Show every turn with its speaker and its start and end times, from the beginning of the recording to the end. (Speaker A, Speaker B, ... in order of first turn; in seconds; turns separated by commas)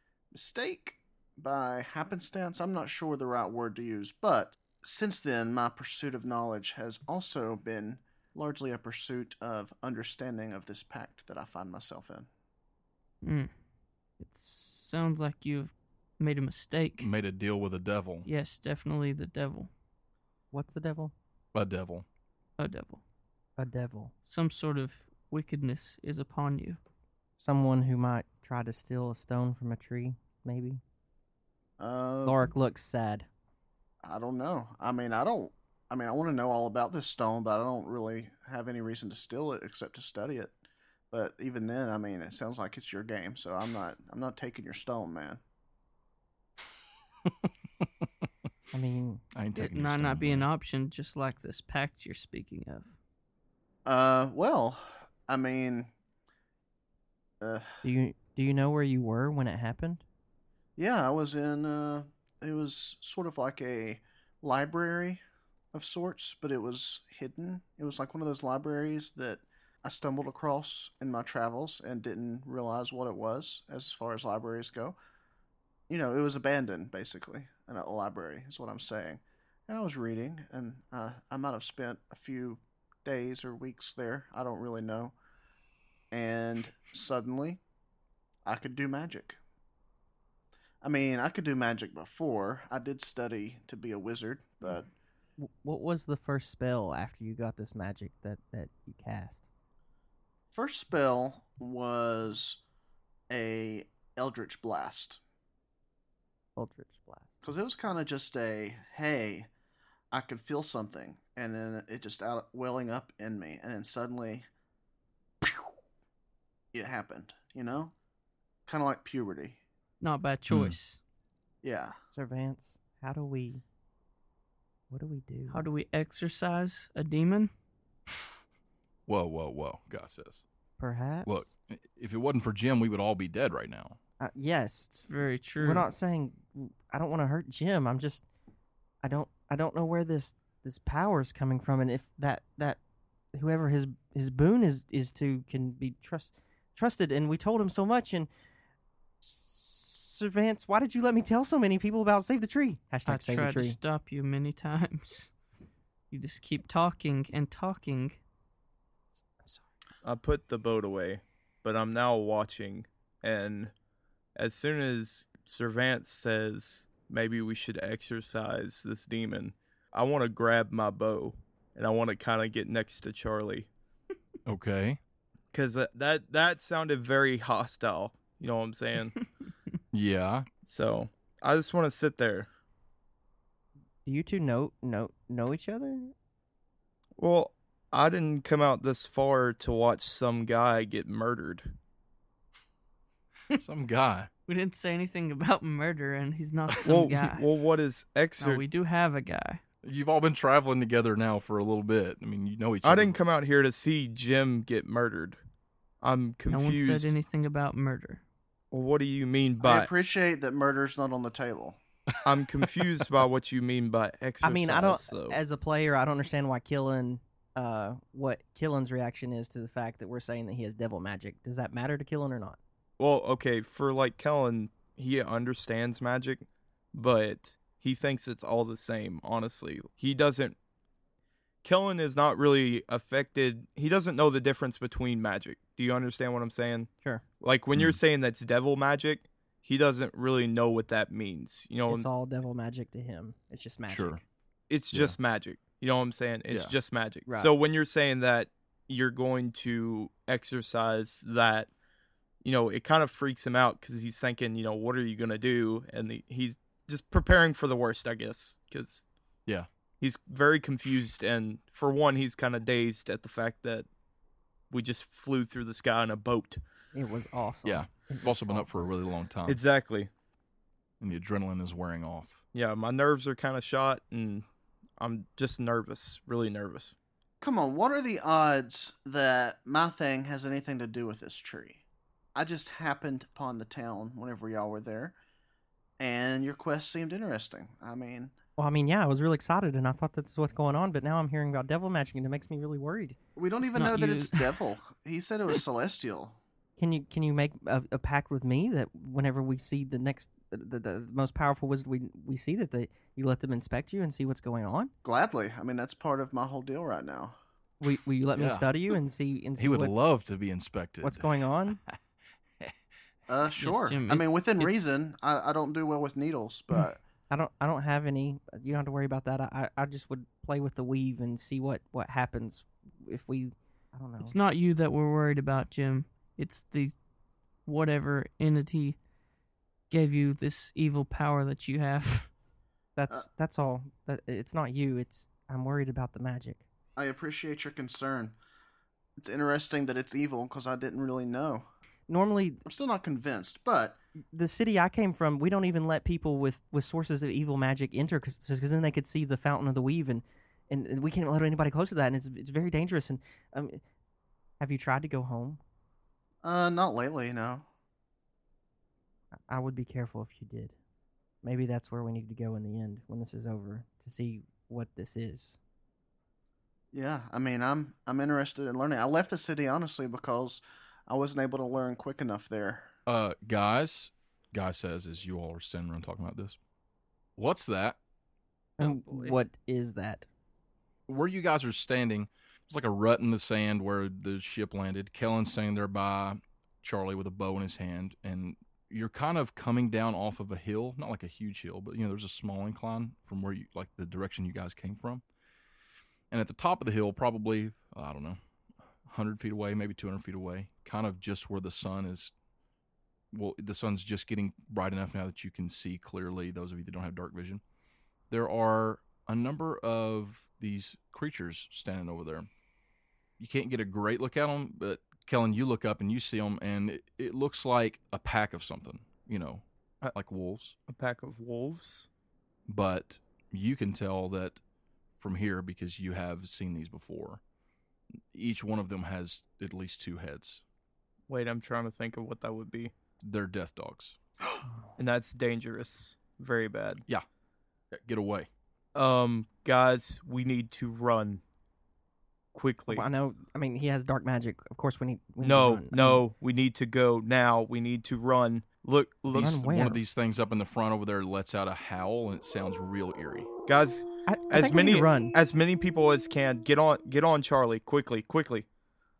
Speaker A: 0.3-12.3, Speaker B: 13.2-13.5, Speaker B: 14.2-17.1, Speaker C: 17.0-18.3, Speaker B: 18.3-19.7, Speaker D: 20.5-21.1, Speaker C: 21.5-22.1, Speaker B: 22.6-23.0, Speaker D: 23.6-24.1, Speaker B: 24.3-26.8, Speaker D: 27.4-30.8, Speaker A: 31.8-32.5, Speaker D: 32.3-33.3, Speaker A: 34.0-40.5, Speaker A: 41.1-45.4, Speaker D: 48.7-49.2, Speaker C: 49.3-50.5, Speaker B: 49.5-53.0, Speaker A: 53.9-55.9, Speaker A: 57.4-57.8, Speaker D: 57.8-60.0, Speaker A: 60.8-65.2, Speaker A: 65.7-75.0, Speaker A: 75.9-85.1, Speaker A: 86.1-87.6, Speaker A: 88.5-89.4, Speaker A: 90.8-94.9, Speaker D: 95.4-99.4, Speaker A: 100.5-102.6, Speaker A: 103.3-105.2, Speaker D: 106.5-107.3, Speaker A: 107.4-109.5, Speaker A: 110.1-114.5, Speaker A: 116.7-117.9, Speaker A: 118.7-119.6, Speaker B: 120.0-121.0, Speaker C: 120.5-120.8, Speaker A: 121.6-122.0, Speaker D: 122.1-123.6, Speaker D: 124.9-125.6, Speaker B: 125.5-127.5, Speaker C: 129.1-130.4, Speaker D: 130.8-131.3, Speaker C: 131.2-134.0, Speaker D: 134.2-134.9, Speaker B: 134.9-135.9, Speaker D: 135.6-138.2, Speaker D: 139.0-142.8, Speaker D: 143.3-148.3, Speaker D: 149.2-153.8, Speaker B: 153.1-155.3, Speaker B: 156.1-158.2, Speaker D: 159.2-159.6, Speaker E: 160.0-163.7, Speaker E: 164.4-173.7, Speaker C: 174.4-175.0, Speaker E: 175.5-179.2, Speaker C: 179.9-180.4, Speaker E: 180.7-182.5, Speaker D: 184.1-186.1, Speaker E: 187.2-191.7, Speaker C: 193.5-194.3, Speaker B: 194.5-197.4, Speaker E: 196.8-198.6, Speaker B: 198.4-199.6, Speaker C: 199.8-203.2, Speaker E: 202.8-205.4, Speaker E: 206.0-207.1, Speaker B: 206.5-208.2, Speaker E: 208.7-209.9, Speaker A: 209.6-211.8, Speaker E: 212.2-215.4, Speaker D: 214.4-222.6, Speaker E: 223.0-230.6, Speaker E: 231.6-242.1, Speaker C: 237.7-238.0, Speaker D: 241.9-244.2, Speaker C: 243.9-244.2, Speaker E: 244.7-251.7, Speaker D: 247.3-247.6, Speaker E: 252.4-259.0, Speaker E: 260.0-263.9, Speaker E: 264.7-266.6, Speaker D: 266.9-268.8, Speaker C: 267.6-269.6, Speaker E: 269.5-270.1, Speaker C: 271.0-272.4, Speaker E: 272.5-274.4, Speaker E: 275.0-276.9, Speaker A: 277.4-281.8, Speaker A: 282.3-285.1, Speaker A: 286.0-288.3, Speaker D: 288.6-293.2, Speaker A: 293.4-296.4, Speaker B: 293.6-294.5, Speaker D: 296.8-304.9, Speaker A: 305.0-307.4, Speaker D: 307.8-309.9, Speaker C: 308.3-308.7, Speaker C: 309.6-312.0, Speaker D: 311.0-311.8, Speaker A: 313.3-317.0, Speaker B: 313.5-314.8, Speaker D: 317.3-324.3, Speaker B: 324.2-326.9, Speaker B: 327.6-329.0, Speaker B: 329.9-332.3, Speaker D: 332.9-336.6, Speaker A: 336.9-338.4, Speaker A: 339.2-341.6, Speaker D: 342.1-342.6, Speaker A: 342.6-344.0, Speaker D: 344.3-353.8, Speaker D: 354.6-355.6, Speaker A: 356.4-357.7, Speaker D: 359.5-360.7, Speaker D: 361.4-365.6, Speaker A: 366.9-372.9, Speaker C: 373.1-376.6, Speaker C: 377.4-378.0, Speaker B: 378.8-379.4, Speaker D: 378.8-380.3, Speaker C: 381.1-395.2, Speaker C: 396.3-398.4, Speaker C: 399.1-402.3, Speaker C: 403.3-407.6, Speaker C: 408.3-412.5, Speaker C: 413.4-420.8, Speaker E: 420.9-422.1, Speaker C: 422.7-424.6, Speaker C: 425.2-427.4, Speaker C: 428.3-430.6, Speaker E: 431.3-432.9, Speaker C: 433.2-434.6, Speaker E: 435.0-437.0, Speaker C: 437.9-438.5, Speaker E: 438.9-441.4, Speaker E: 442.5-443.1, Speaker D: 442.9-446.2, Speaker E: 445.4-449.6, Speaker D: 449.3-450.0, Speaker C: 449.3-453.5, Speaker E: 453.6-458.6, Speaker D: 454.3-455.3